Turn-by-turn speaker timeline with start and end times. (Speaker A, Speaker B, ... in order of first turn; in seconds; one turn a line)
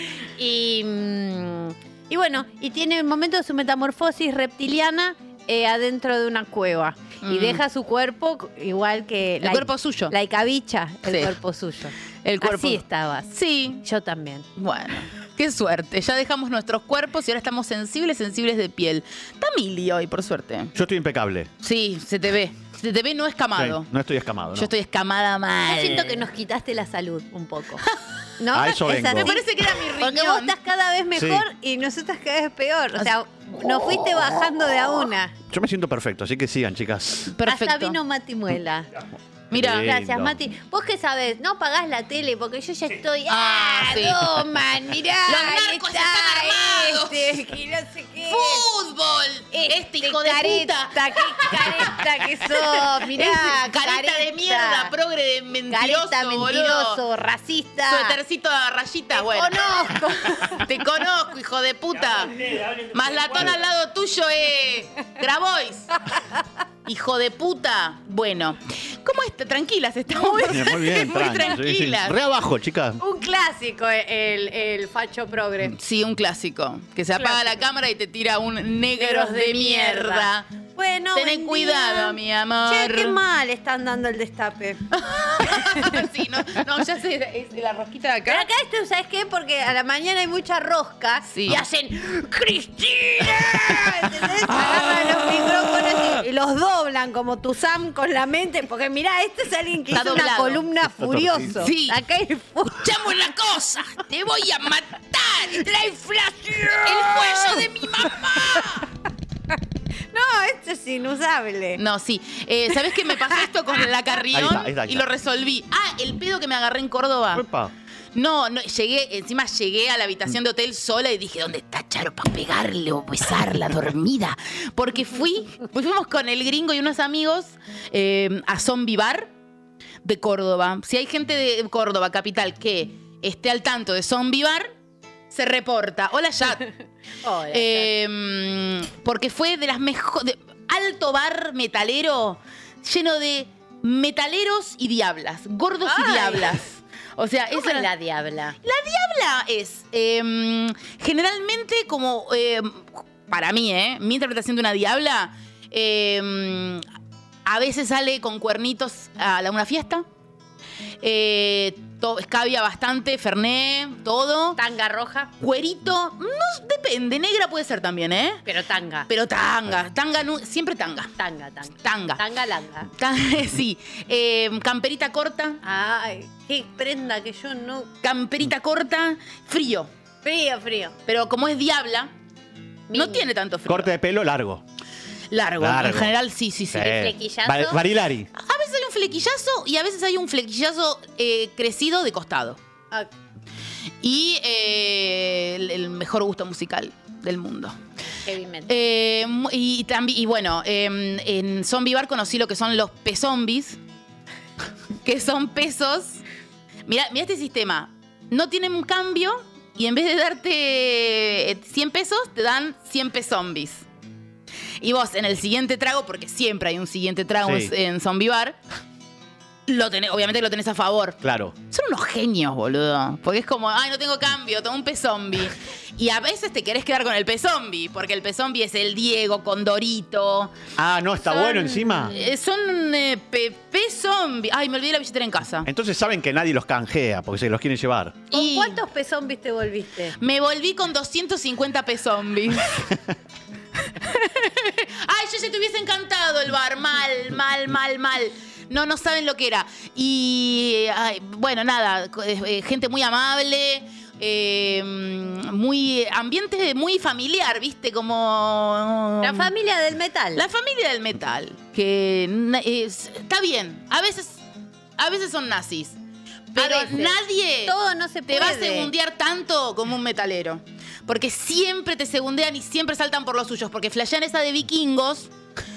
Speaker A: 0.4-13.3
Speaker B: 7.2-7.6
Speaker B: 9.4-10.1
Speaker B: 12.2-13.8
Speaker A: 13.8-14.4
Speaker B: 14.6-20.7
Speaker C: 20.7-21.5
Speaker B: 21.6-23.9
Speaker C: 23.6-24.7
Speaker B: 24.5-26.2
Speaker A: 25.7-27.8
Speaker A: 28.4-35.3
Speaker C: 28.5-29.3
Speaker B: 29.0-30.5
Speaker C: 31.1-31.4
Speaker C: 35.5-37.3
Speaker B: 37.3-38.0
Speaker A: 37.5-38.9
Speaker C: 39.5-40.3
Speaker A: 39.5-48.6
Speaker B: 43.3-44.4
Speaker B: 45.3-47.4
Speaker B: 48.3-52.0
Speaker A: 49.5-54.9
Speaker B: 52.6-57.0
Speaker A: 55.7-58.2
Speaker B: 57.9-65.9
Speaker A: 59.1-60.6
Speaker B: 66.8-72.2
Speaker A: 70.2-71.5
Speaker C: 70.4-73.0
Speaker A: 73.0-75.7
Speaker B: 75.8-80.5
Speaker A: 77.2-77.6
Speaker A: 79.0-85.9
Speaker B: 81.1-83.2
Speaker B: 85.0-88.4
Speaker A: 88.3-102.8
Speaker B: 91.3-91.6
Speaker B: 99.9-100.6
Speaker C: 101.0-101.6
Speaker B: 101.5-102.0
Speaker B: 102.7-105.7
Speaker A: 105.6-107.6
Speaker B: 106.8-108.9
Speaker A: 110.1-111.8
Speaker B: 111.8-117.4
Speaker C: 114.3-115.0
Speaker C: 117.3-117.7
Speaker B: 118.1-129.3
Speaker B: 130.0-134.7
Speaker B: 135.3-136.7
Speaker A: 137.2-137.9
Speaker B: 137.5-147.9
Speaker A: 145.8-146.6
Speaker A: 147.5-148.6
Speaker B: 148.6-156.8
Speaker B: 157.4-160.0
Speaker B: 161.0-164.6
Speaker A: 164.6-165.3
Speaker B: 165.4-168.4
Speaker A: 168.4-169.1
Speaker B: 169.1-171.1
Speaker A: 171.2-172.9
Speaker B: 171.8-172.2
Speaker B: 173.0-175.6
Speaker A: 175.6-177.9
Speaker B: 178.0-179.9
Speaker A: 180.2-180.9
Speaker B: 181.1-182.1
Speaker A: 182.9-183.2
Speaker B: 182.9-183.9
Speaker C: 183.7-184.6
Speaker B: 185.3-187.0
Speaker C: 185.6-186.1
Speaker C: 186.7-188.3
Speaker A: 186.9-187.8
Speaker B: 188.3-192.6
Speaker B: 194.0-197.8
Speaker A: 198.2-198.7
Speaker B: 198.7-203.8
Speaker B: 205.0-206.2
Speaker B: 206.9-213.8
Speaker B: 214.8-218.6
Speaker C: 217.4-217.7
Speaker B: 219.7-221.2
Speaker C: 221.2-221.5
Speaker B: 221.7-230.5
Speaker C: 230.8-232.1
Speaker A: 231.3-232.2
Speaker B: 232.1-235.7
Speaker C: 235.6-238.2
Speaker B: 238.3-238.8
Speaker A: 238.3-240.2
Speaker B: 240.2-242.8
Speaker B: 244.0-259.5
Speaker A: 259.2-260.4
Speaker B: 260.4-264.4
Speaker B: 265.0-266.0
Speaker B: 266.5-267.7
Speaker A: 266.6-268.9
Speaker B: 268.3-275.3